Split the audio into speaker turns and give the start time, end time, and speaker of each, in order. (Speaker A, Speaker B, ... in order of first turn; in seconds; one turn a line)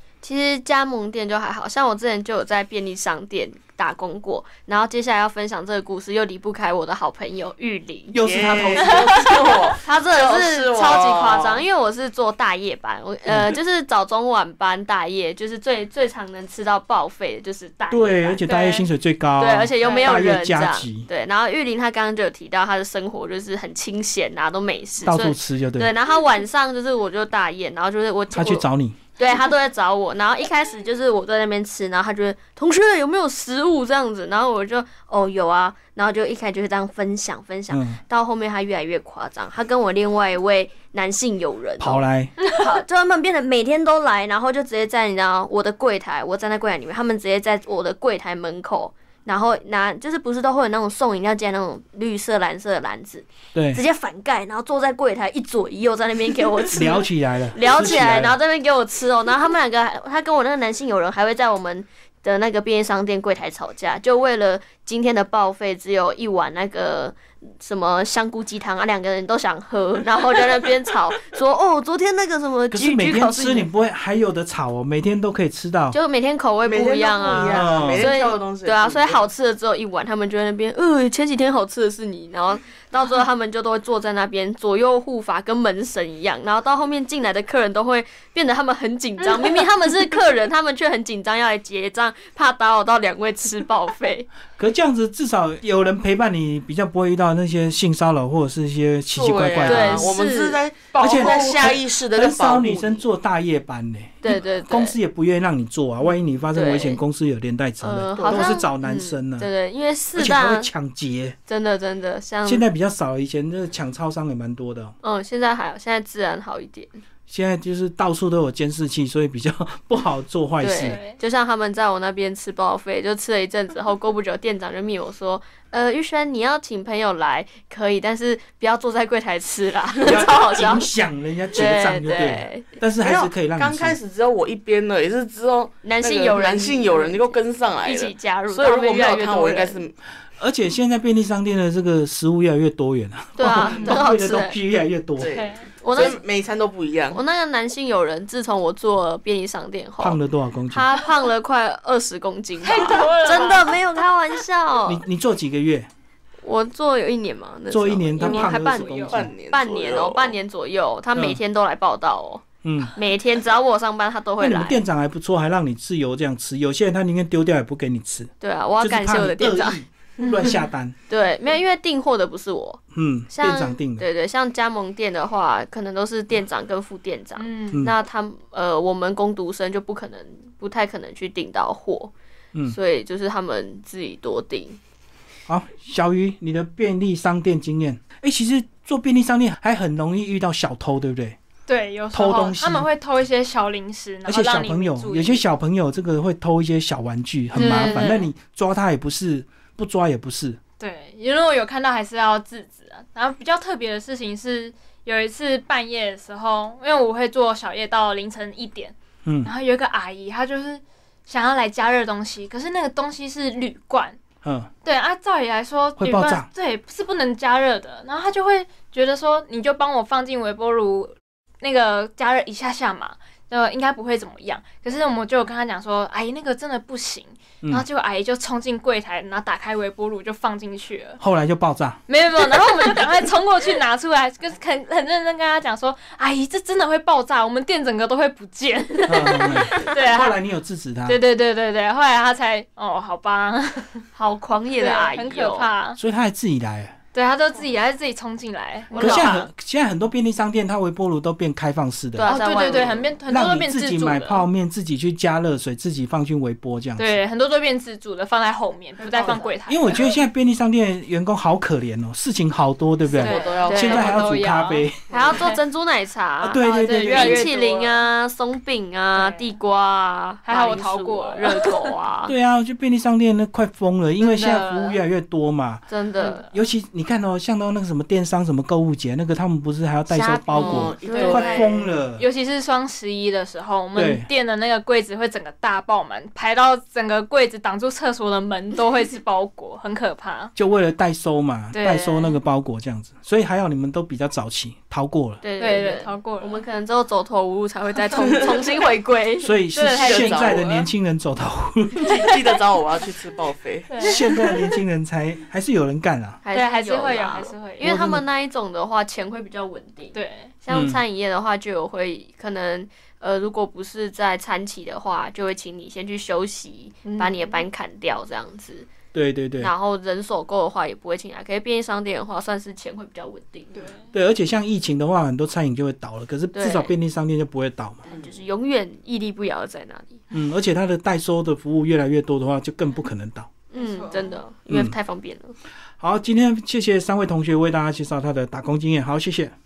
Speaker A: 0.2-8.2
Speaker B: 8.1-9.4
Speaker C: 8.2-11.7
Speaker D: 8.8-9.1
Speaker A: 9.8-18.4
Speaker B: 13.3-13.6
Speaker B: 17.9-21.1
Speaker D: 18.4-18.9
Speaker A: 19.4-73.7
Speaker D: 19.8-20.2
Speaker B: 25.0-25.9
Speaker B: 28.3-29.0
Speaker B: 37.7-38.0
Speaker B: 41.8-42.4
Speaker B: 53.5-53.8
Speaker B: 56.7-58.4
Speaker B: 72.7-76.0
Speaker A: 75.9-94.3
Speaker C: 76.6-79.3
Speaker B: 77.5-78.1
Speaker B: 94.6-100.1
Speaker C: 99.1-103.1
Speaker A: 99.6-100.6
Speaker D: 100.9-101.8
Speaker B: 101.0-109.5
Speaker A: 104.2-105.0
Speaker A: 106.5-107.0
Speaker A: 107.8-110.7
Speaker C: 108.2-108.6
Speaker B: 110.2-111.4
Speaker A: 111.5-112.7
Speaker B: 112.5-114.9
Speaker A: 115.0-117.0
Speaker B: 117.3-121.0
Speaker A: 120.6-130.9
Speaker D: 120.8-121.2
Speaker B: 130.0-134.0
Speaker A: 131.5-132.7
Speaker C: 133.0-140.0
Speaker A: 135.8-139.8
Speaker B: 140.4-145.5
Speaker A: 143.4-144.6
Speaker C: 143.6-144.0
Speaker C: 145.2-147.2
Speaker D: 145.3-145.7
Speaker A: 145.8-146.2
Speaker A: 147.1-150.2
Speaker B: 150.0-150.9
Speaker A: 150.7-155.0
Speaker D: 152.6-153.8
Speaker B: 154.9-155.9
Speaker A: 156.4-162.4
Speaker B: 157.7-159.3
Speaker D: 158.2-159.1
Speaker C: 159.1-160.4
Speaker B: 162.6-162.9
Speaker A: 163.0-164.8
Speaker B: 164.4-170.9
Speaker A: 168.4-169.8
Speaker D: 170.2-170.6
Speaker A: 171.1-182.1
Speaker B: 172.9-174.1
Speaker D: 177.4-177.8
Speaker A: 182.7-184.8
Speaker B: 185.5-191.4
Speaker D: 191.7-195.4
Speaker B: 192.1-192.9
Speaker B: 194.3-200.6
Speaker D: 197.5-198.3
Speaker D: 200.8-214.2
Speaker B: 209.2-209.5
Speaker B: 214.4-214.7
Speaker D: 214.8-231.2
Speaker B: 216.0-216.5
Speaker B: 231.2-232.0
Speaker D: 232.1-240.4
Speaker B: 239.1-241.2
Speaker D: 241.1-244.1
Speaker A: 244.2-245.7
Speaker D: 244.8-246.0
Speaker B: 246.0-247.0
Speaker D: 247.1-249.5
Speaker A: 248.9-249.3
Speaker B: 249.0-252.4
Speaker A: 252.2-253.1
Speaker D: 252.2-254.5
Speaker B: 253.3-257.2
Speaker D: 257.0-260.1
Speaker C: 259.1-259.5
Speaker B: 259.7-265.2
Speaker C: 263.1-264.4
Speaker D: 263.2-265.6
Speaker A: 263.6-264.1
Speaker A: 265.0-272.3
Speaker B: 266.4-267.5
Speaker D: 266.6-268.1
Speaker D: 269.1-269.5
Speaker D: 270.4-272.0
Speaker B: 272.3-282.2
Speaker D: 274.2-275.0
Speaker A: 275.9-276.5
Speaker D: 276.2-276.5
Speaker A: 280.1-281.7
Speaker C: 280.5-282.0
Speaker D: 281.0-290.5
Speaker B: 283.9-284.3
Speaker B: 290.6-295.4
Speaker D: 291.7-292.4
Speaker A: 295.4-299.6
Speaker D: 295.6-296.6
Speaker B: 299.4-302.2
Speaker D: 299.7-300.9
Speaker C: 299.8-300.6
Speaker C: 302.0-304.2
Speaker D: 303.9-304.6
Speaker B: 304.0-306.4
Speaker A: 306.4-318.9
Speaker D: 306.5-307.9
Speaker B: 307.8-308.2
Speaker D: 310.1-310.5
Speaker B: 310.7-311.0
Speaker D: 317.0-317.6
Speaker B: 319.1-319.7
Speaker A: 319.6-323.9
Speaker D: 323.7-324.1
Speaker B: 324.1-328.0
Speaker A: 326.5-326.9
Speaker C: 328.1-328.4
Speaker A: 328.1-330.2
Speaker B: 330.3-333.5
Speaker A: 333.7-335.6
Speaker D: 333.7-334.4
Speaker B: 334.7-335.0
Speaker B: 336.0-339.5